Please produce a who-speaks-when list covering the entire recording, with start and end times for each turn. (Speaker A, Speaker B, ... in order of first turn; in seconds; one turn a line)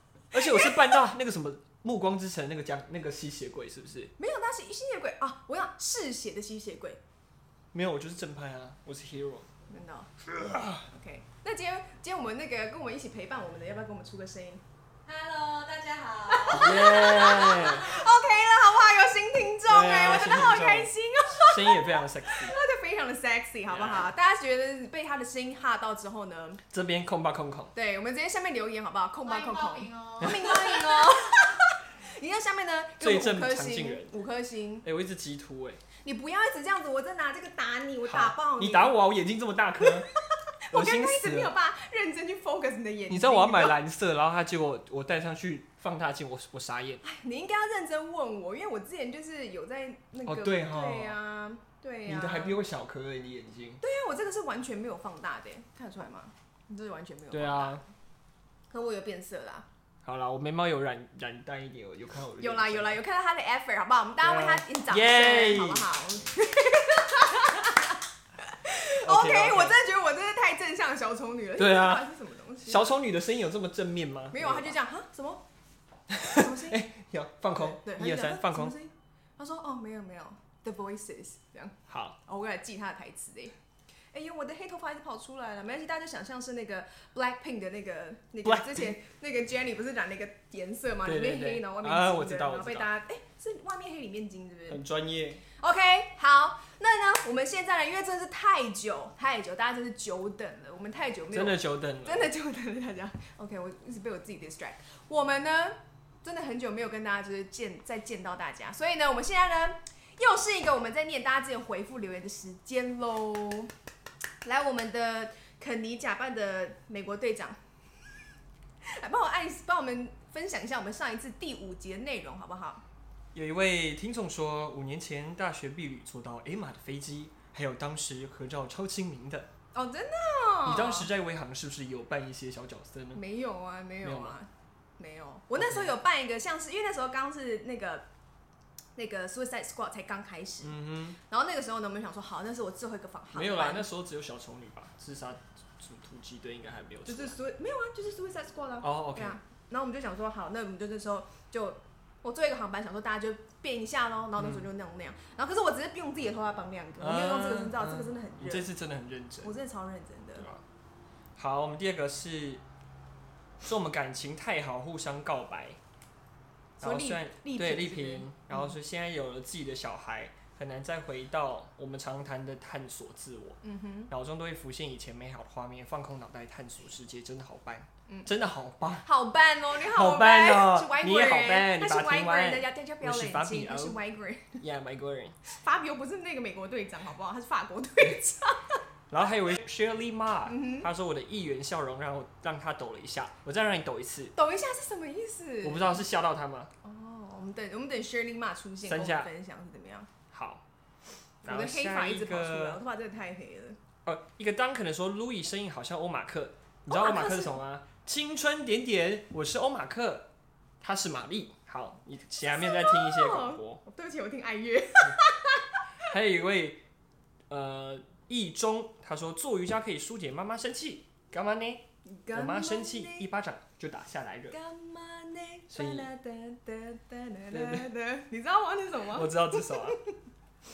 Speaker A: 0.3-4.1
Speaker B: 0.5-0.7
Speaker B: 4.2-7.0
Speaker A: 7.7-9.5
Speaker B: 9.7-10.1
Speaker A: 10.4-10.8
Speaker B: 10.8-14.6
Speaker C: 15.1-16.5
Speaker B: 15.5-26.6
Speaker A: 16.5-18.0
Speaker A: 19.7-22.6
Speaker A: 23.7-24.1
Speaker A: 26.7-27.7
Speaker B: 27.7-34.9
Speaker C: 29.4-30.3
Speaker A: 30.2-31.1
Speaker A: 33.0-34.1
Speaker A: 34.8-35.8
Speaker B: 36.0-39.0
Speaker A: 38.0-40.1
Speaker B: 40.7-43.8
Speaker A: 40.7-41.5
Speaker A: 43.1-47.0
Speaker B: 47.0-52.6
Speaker A: 50.3-51.2
Speaker A: 52.1-53.8
Speaker B: 53.8-57.9
Speaker A: 57.3-57.8
Speaker B: 58.7-59.7
Speaker A: 60.0-63.0
Speaker B: 62.4-72.9
Speaker A: 64.2-65.9
Speaker A: 69.0-69.8
Speaker A: 71.6-72.0
Speaker A: 72.6-74.8
Speaker B: 74.3-75.4
Speaker A: 76.1-78.8
Speaker B: 76.2-76.9
Speaker B: 77.6-83.5
Speaker A: 81.9-82.2
Speaker B: 84.1-94.8
Speaker A: 88.4-89.0
Speaker A: 91.0-92.9
Speaker A: 94.7-95.4
Speaker B: 95.6-113.7
Speaker A: 101.3-102.3
Speaker B: 114.4-117.6
Speaker B: 119.0-122.8
Speaker A: 123.3-129.5
Speaker B: 129.7-131.1
Speaker A: 130.7-133.2
Speaker B: 133.1-138.1
Speaker A: 134.0-134.4
Speaker A: 135.6-135.9
Speaker B: 139.0-143.9
Speaker A: 140.6-141.2
Speaker A: 143.3-147.4
Speaker B: 147.1-158.7
Speaker A: 148.8-149.4
Speaker A: 154.4-154.7
Speaker A: 157.0-159.5
Speaker B: 159.4-160.5
Speaker A: 160.4-160.6
Speaker A: 161.4-162.6
Speaker A: 163.6-165.8
Speaker A: 166.8-179.1
Speaker B: 166.8-168.6
Speaker B: 173.6-174.1
Speaker B: 179.0-184.6
Speaker A: 179.8-184.0
Speaker A: 184.6-185.4
Speaker B: 185.4-188.8
Speaker A: 189.1-194.3
Speaker B: 190.5-190.9
Speaker B: 194.4-196.1
Speaker A: 195.6-196.7
Speaker B: 196.8-200.1
Speaker A: 198.8-199.3
Speaker A: 200.3-200.7
Speaker A: 201.4-202.8
Speaker B: 201.5-203.8
Speaker A: 204.1-210.3
Speaker B: 206.9-207.6
Speaker A: 210.8-213.8
Speaker B: 212.4-215.7
Speaker A: 216.1-216.8
Speaker A: 217.5-224.6
Speaker B: 222.1-223.3
Speaker B: 224.5-230.1
Speaker A: 225.7-226.1
Speaker A: 227.5-227.9
Speaker A: 229.1-230.0